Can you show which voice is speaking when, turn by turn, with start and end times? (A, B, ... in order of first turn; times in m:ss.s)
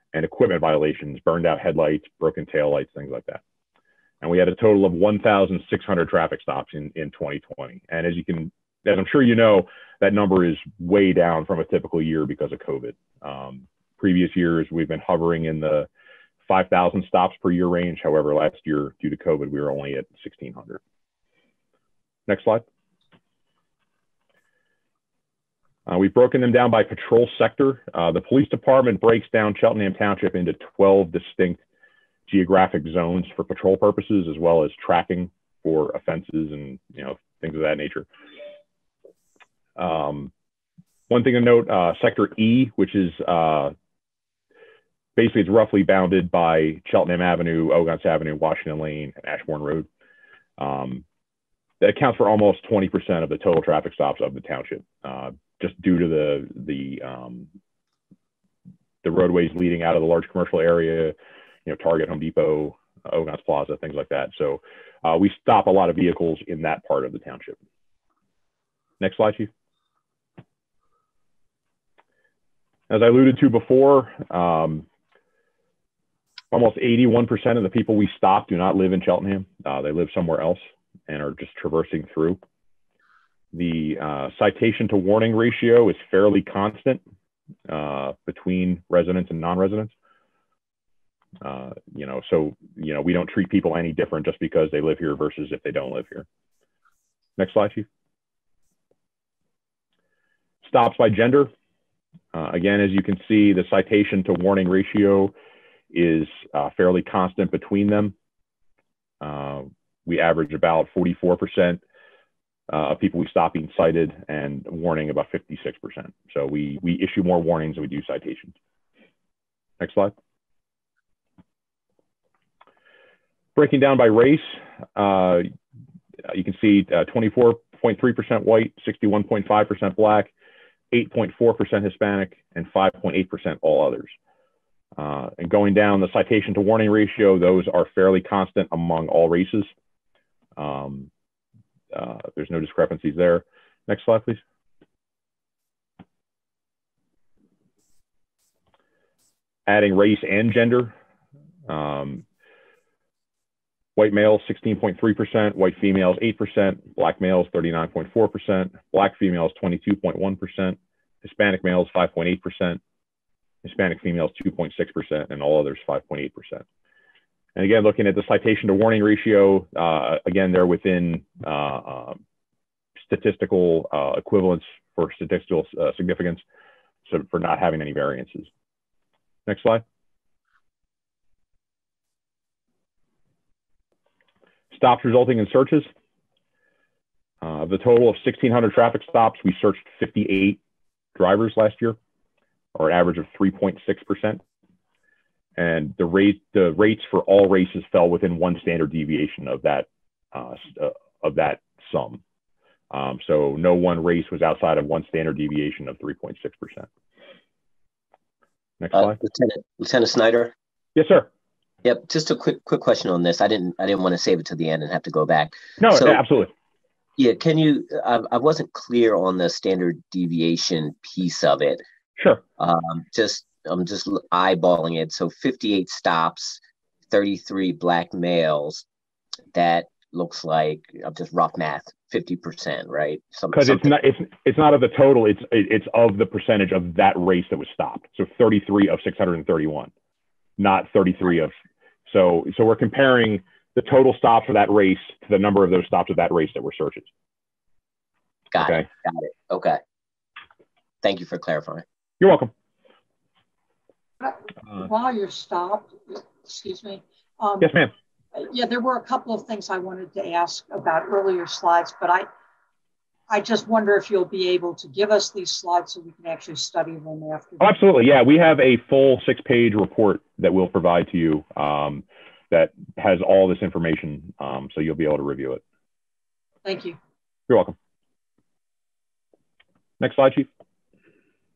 0:00.1-0:03.4 A
0:04.2-0:15.9 A
0:16.5-0:20.8 A
0:22.3-0:22.6 A
0:25.9-0:31.6 A
0:32.3-0:38.1 A
0:39.8-0:40.3 A
0:41.1-0:43.7 A
0:45.2-0:49.9 A
0:50.6-0:51.0 A
0:51.8-0:57.5 A
0:59.0-1:01.1 A
1:01.6-1:07.6 A
1:09.0-1:09.5 A
1:12.9-1:14.8 A
1:16.5-1:22.4 A
1:23.5-1:27.0 A
1:27.7-1:29.9 A
1:31.4-1:36.2 A
1:37.4-1:37.9 A
1:40.6-1:41.5 A
1:42.3-1:45.3 A
1:45.9-1:48.1 A
1:49.2-1:51.8 A
1:52.7-1:58.5 A
1:59.8-2:00.1 A
2:03.6-2:05.5 A
2:06.2-2:10.3 A
2:10.9-2:14.1 A
2:15.0-2:19.7 A
2:20.6-2:21.1 A
2:21.9-2:24.4 A
2:29.7-2:30.9 A
2:31.7-2:32.2 A
2:34.0-2:42.8 A
2:43.6-2:46.6 A
2:47.6-2:52.2 A
2:53.0-2:56.4 A
2:57.1-2:58.5 A
2:59.5-2:59.8 A
3:04.7-3:05.9 A
3:07.4-3:10.6 A
3:11.2-3:12.0 A
3:12.7-3:14.4 A
3:15.6-3:22.2 A
3:22.9-3:26.9 A
3:28.8-3:29.2 A
3:28.9-3:30.5 B
3:31.0-3:31.3 A
3:31.8-3:36.2 B
3:35.8-3:36.5 A
3:37.2-3:41.8 B
3:42.6-3:48.8 B
3:49.5-3:53.9 B
3:53.5-3:59.9 A
4:00.6-4:01.5 A
4:02.1-4:07.1 A
4:08.5-4:09.8 B
4:08.6-4:08.9 A
4:11.0-4:11.8 B
4:12.2-4:12.5 A
4:14.2-4:17.7 C
4:17.6-4:17.9 A
4:18.3-4:22.3 C
4:23.3-4:27.8 C
4:27.6-4:35.6 A
4:36.6-4:37.0 C
4:37.5-4:37.7 A
4:40.0-4:40.5 A